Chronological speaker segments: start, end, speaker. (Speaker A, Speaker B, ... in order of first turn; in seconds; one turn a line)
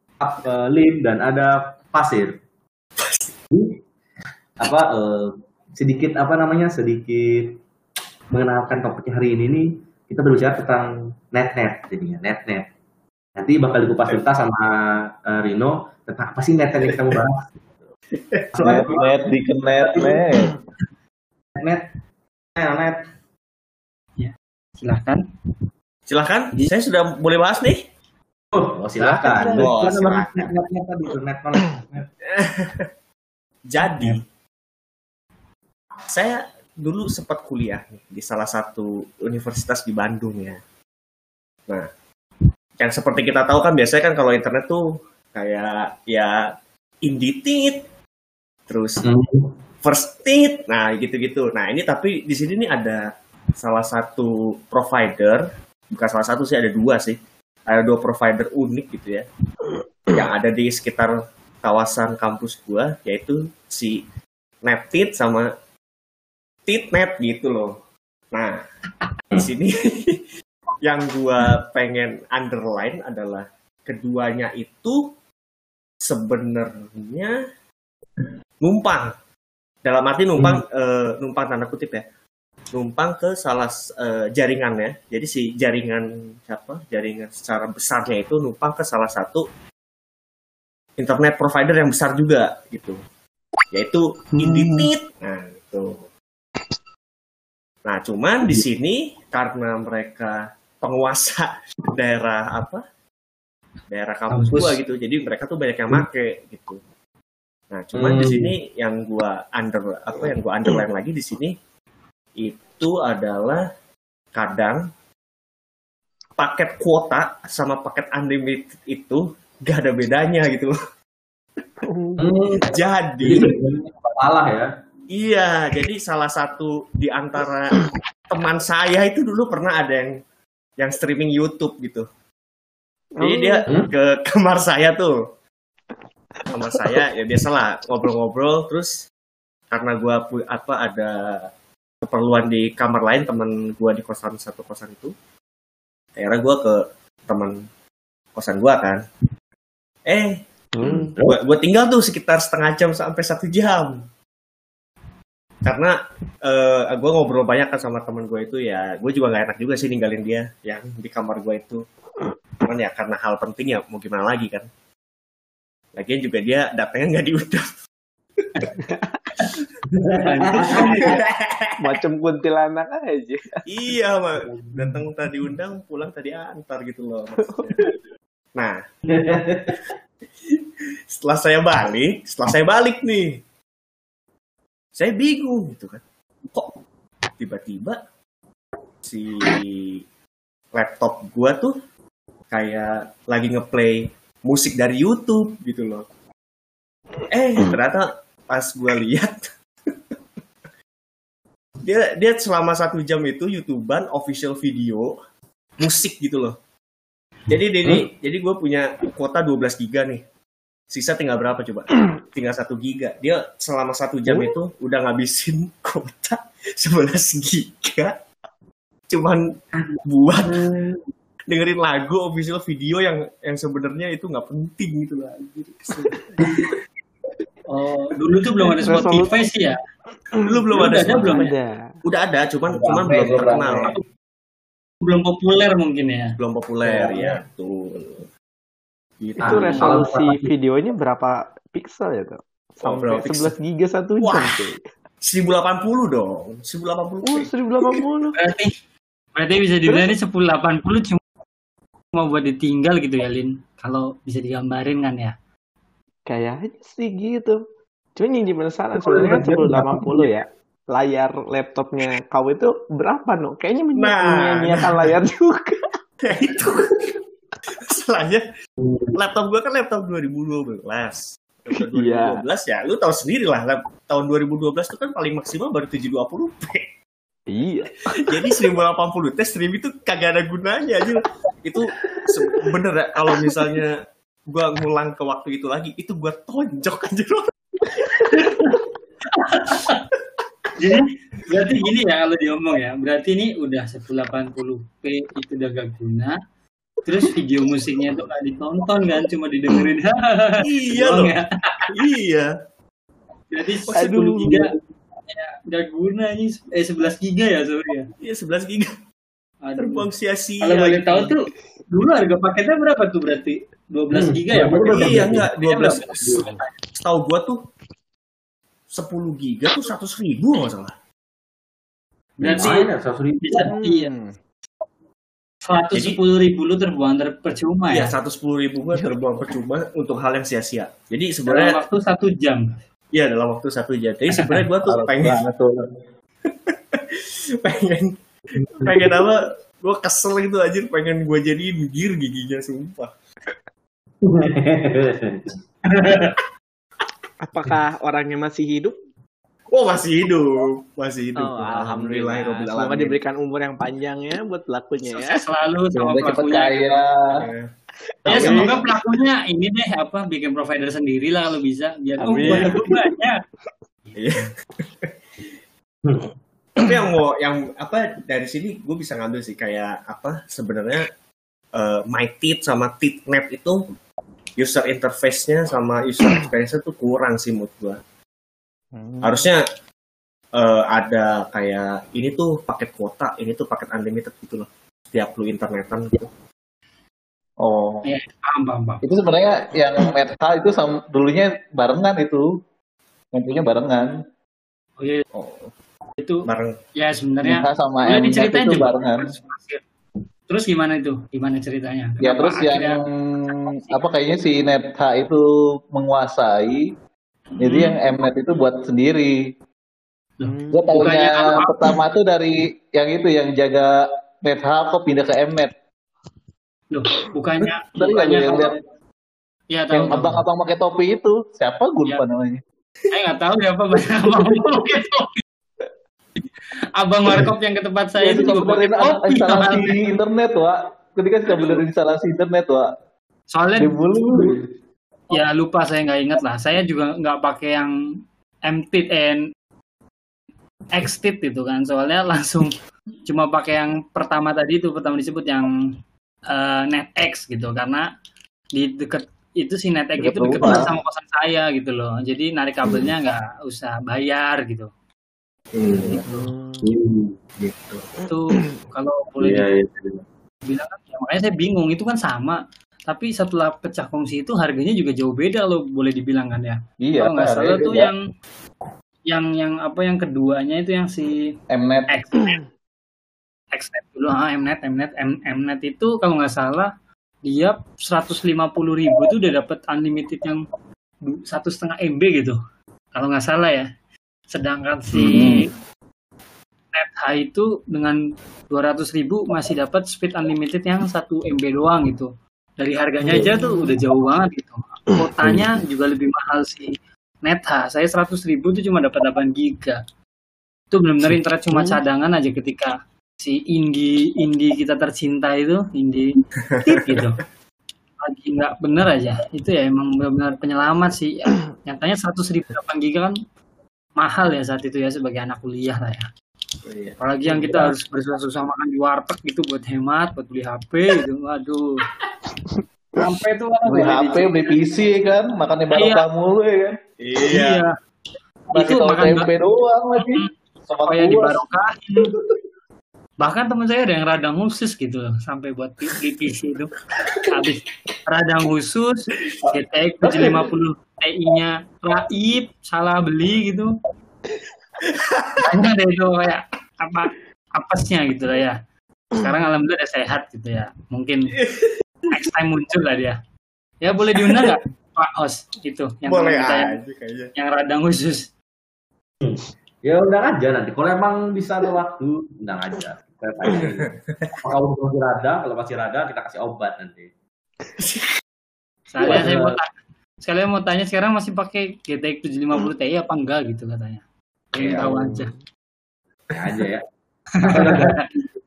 Speaker A: 0.2-2.3
Speaker A: 3.5-3.8
Speaker A: 4.6-7.6
Speaker A: 8.3-12.7
Speaker A: 13.4-14.7
Speaker A: 15.2-17.5
Speaker A: 18.5-19.2
Speaker B: 18.6-20.5
Speaker A: 19.8-20.4
Speaker A: 21.6-21.9
Speaker A: 22.6-23.0
Speaker C: 24.2-25.2
Speaker D: 26.1-27.9
Speaker A: 28.5-32.0
Speaker D: 29.0-30.5
Speaker E: 29.3-29.7
Speaker D: 32.3-32.9
Speaker D: 33.6-34.2
Speaker C: 33.8-34.2
Speaker D: 36.0-40.6
Speaker D: 42.8-46.5
Speaker D: 47.0-47.8
Speaker D: 48.7-49.1
Speaker A: 49.0-49.5
Speaker D: 49.8-59.3
Speaker D: 60.1-64.0
Speaker D: 64.6-65.5
Speaker D: 66.7-67.8
Speaker D: 68.3-68.6
Speaker D: 69.3-70.2
Speaker D: 70.8-75.1
Speaker D: 76.0-77.3
Speaker D: 78.6-79.1
Speaker D: 79.8-82.0
Speaker A: 80.4-80.6
Speaker D: 82.7-89.5
Speaker D: 91.0-93.0
Speaker D: 93.7-96.0
Speaker C: 94.4-94.8
Speaker D: 97.8-102.8
Speaker D: 103.9-106.8
Speaker D: 107.7-111.5
Speaker A: 107.9-108.5
Speaker D: 112.4-113.7
Speaker D: 114.3-114.9
Speaker D: 116.4-120.7
Speaker E: 121.8-122.2
Speaker A: 122.2-124.7
Speaker D: 122.6-123.5
Speaker D: 125.1-127.8
Speaker D: 128.3-130.2
Speaker D: 130.8-132.1
Speaker E: 133.1-133.7
Speaker D: 133.2-135.2
Speaker D: 136.4-139.1
Speaker D: 139.7-141.5
Speaker D: 142.0-145.1
Speaker D: 146.2-147.6
Speaker D: 148.3-149.0
Speaker D: 150.1-154.0
Speaker E: 150.8-151.1
Speaker A: 150.8-151.3
Speaker D: 155.6-161.8
Speaker D: 162.6-164.7
Speaker D: 165.9-167.7
Speaker D: 168.4-168.7
Speaker E: 168.8-169.1
Speaker A: 170.0-171.1
Speaker E: 170.4-171.2
Speaker C: 170.5-171.0
Speaker D: 170.5-172.0
Speaker E: 171.8-173.7
Speaker D: 173.7-177.9
Speaker E: 177.5-177.9
Speaker D: 178.5-178.8
Speaker A: 179.1-179.8
Speaker D: 181.1-183.4
Speaker D: 184.9-186.8
Speaker D: 187.4-188.0
Speaker D: 189.0-190.0
Speaker D: 190.7-191.8
Speaker D: 192.5-196.1
Speaker D: 197.3-199.5
Speaker D: 201.8-205.2
Speaker D: 205.8-206.6
Speaker D: 207.5-210.2
Speaker D: 210.9-218.2
Speaker D: 219.1-220.7
Speaker D: 221.5-226.7
Speaker C: 227.7-229.8
Speaker E: 228.8-229.4
Speaker E: 230.3-231.8
Speaker D: 230.5-234.0
Speaker C: 230.7-231.5
Speaker B: 232.7-233.9
Speaker C: 235.0-236.3
Speaker D: 236.4-238.3
Speaker B: 236.9-237.2
Speaker D: 239.2-240.2
Speaker A: 239.4-240.5
Speaker E: 239.4-244.8
Speaker D: 242.8-243.5
Speaker D: 244.2-244.7
Speaker D: 245.2-248.0
Speaker E: 247.2-248.4
Speaker C: 248.3-248.7
Speaker C: 249.3-251.2
Speaker E: 249.8-250.1
Speaker C: 252.1-255.3
Speaker E: 256.3-257.6
Speaker E: 258.1-265.8
Speaker A: 259.0-260.0
Speaker D: 263.9-265.1
Speaker D: 266.2-267.1
Speaker D: 267.7-268.4
Speaker A: 268.8-269.1
Speaker D: 269.1-276.9
Speaker E: 271.8-272.4
Speaker E: 277.5-278.5
Speaker D: 278.2-288.2
Speaker C: 288.2-290.0
Speaker C: 290.8-296.4
Speaker C: 297.0-301.9
Speaker D: 300.6-301.3
Speaker D: 301.9-302.5
Speaker C: 303.5-304.7
Speaker E: 303.9-304.6
Speaker C: 305.3-308.1
Speaker D: 308.2-308.9
Speaker C: 309.6-310.0
Speaker D: 309.8-311.3
Speaker C: 310.6-316.7
Speaker A: 314.1-315.5
Speaker D: 314.9-317.6
Speaker D: 318.9-320.9
Speaker C: 322.4-322.9
Speaker A: 322.4-323.7
Speaker C: 323.4-324.1
Speaker E: 323.6-324.3
Speaker C: 325.6-328.1
Speaker D: 325.9-326.2
Speaker D: 327.9-331.8
Speaker E: 328.9-329.2
Speaker C: 331.5-332.7
Speaker D: 333.1-335.4
Speaker B: 334.8-335.8
Speaker D: 336.5-338.2
Speaker A: 338.6-339.0
Speaker D: 338.7-343.1
Speaker A: 344.2-346.3
Speaker E: 347.4-348.9
Speaker D: 349.7-353.2
Speaker E: 351.4-355.5
Speaker C: 355.1-356.9
Speaker B: 355.9-357.5
Speaker D: 357.3-357.7
Speaker E: 358.2-358.8
Speaker D: 358.2-358.8
Speaker C: 358.2-363.4
Speaker E: 362.2-363.0
Speaker D: 364.1-365.1
Speaker D: 366.8-371.1
Speaker D: 371.7-373.8
Speaker D: 374.6-378.0
Speaker E: 378.9-379.4
Speaker D: 379.2-379.6
Speaker D: 380.5-386.3
Speaker B: 387.6-388.1
Speaker C: 388.0-389.0
Speaker B: 389.0-392.6
Speaker B: 393.3-394.2
Speaker C: 395.0-395.2
Speaker D: 395.3-395.7
Speaker C: 396.2-399.8
Speaker D: 396.4-396.8
Speaker B: 397.4-399.3
Speaker C: 400.5-403.0
Speaker B: 402.2-406.9
Speaker C: 403.5-404.0
Speaker C: 407.6-408.0
Speaker B: 407.6-409.5
Speaker C: 410.4-411.8
Speaker E: 410.4-410.9
Speaker B: 410.7-415.7
Speaker C: 416.9-418.8
Speaker B: 417.9-418.8
Speaker C: 419.7-420.4
Speaker B: 419.9-422.6
Speaker C: 423.1-425.4
Speaker C: 426.9-430.0
Speaker B: 428.1-432.9
Speaker C: 433.5-433.9
Speaker B: 433.8-434.6
Speaker C: 435.3-437.9
Speaker C: 438.6-439.4
Speaker C: 440.9-445.7
Speaker C: 446.5-448.1
Speaker C: 448.8-454.9
Speaker B: 450.2-450.9
Speaker D: 455.7-456.5
Speaker E: 456.2-456.9
Speaker A: 456.8-457.3
Speaker D: 457.6-458.1
Speaker C: 458.3-459.7
Speaker A: 459.4-460.2
Speaker C: 460.7-468.1
Speaker B: 467.0-468.1
Speaker C: 469.3-471.5
Speaker B: 471.7-472.1
Speaker C: 472.1-472.6
Speaker C: 473.7-476.9
Speaker C: 477.4-480.6
Speaker C: 481.2-482.6
Speaker C: 483.1-483.9
Speaker C: 484.5-485.7
Speaker B: 485.3-485.6
Speaker C: 486.9-488.2
Speaker C: 488.7-500.0
Speaker C: 500.9-506.3
Speaker D: 506.7-507.2
Speaker C: 506.8-507.4
Speaker C: 508.2-513.4
Speaker C: 514.2-516.3
Speaker D: 516.8-517.2
Speaker C: 517.2-521.8
Speaker C: 523.2-524.7
Speaker B: 523.9-527.0
Speaker C: 525.9-526.2
Speaker D: 527.2-527.8
Speaker C: 527.5-527.9
Speaker B: 528.7-531.6
Speaker C: 528.7-529.5
Speaker C: 530.2-530.5
Speaker C: 531.1-532.3
Speaker C: 533.4-536.9
Speaker C: 537.5-543.9
Speaker D: 545.1-545.6
Speaker C: 545.6-548.8
Speaker C: 549.3-551.5
Speaker D: 551.6-551.9
Speaker C: 552.3-553.4
Speaker C: 554.0-557.0
Speaker D: 556.3-557.5
Speaker C: 557.5-558.5
Speaker A: 559.4-567.3
Speaker D: 564.1-564.5
Speaker D: 568.0-568.3
Speaker C: 569.1-574.2
Speaker A: 569.2-569.8
Speaker C: 574.7-575.5
Speaker A: 574.8-575.1
Speaker E: 575.0-575.5
Speaker A: 576.5-577.0
Speaker C: 577.6-578.2
Speaker A: 577.7-578.2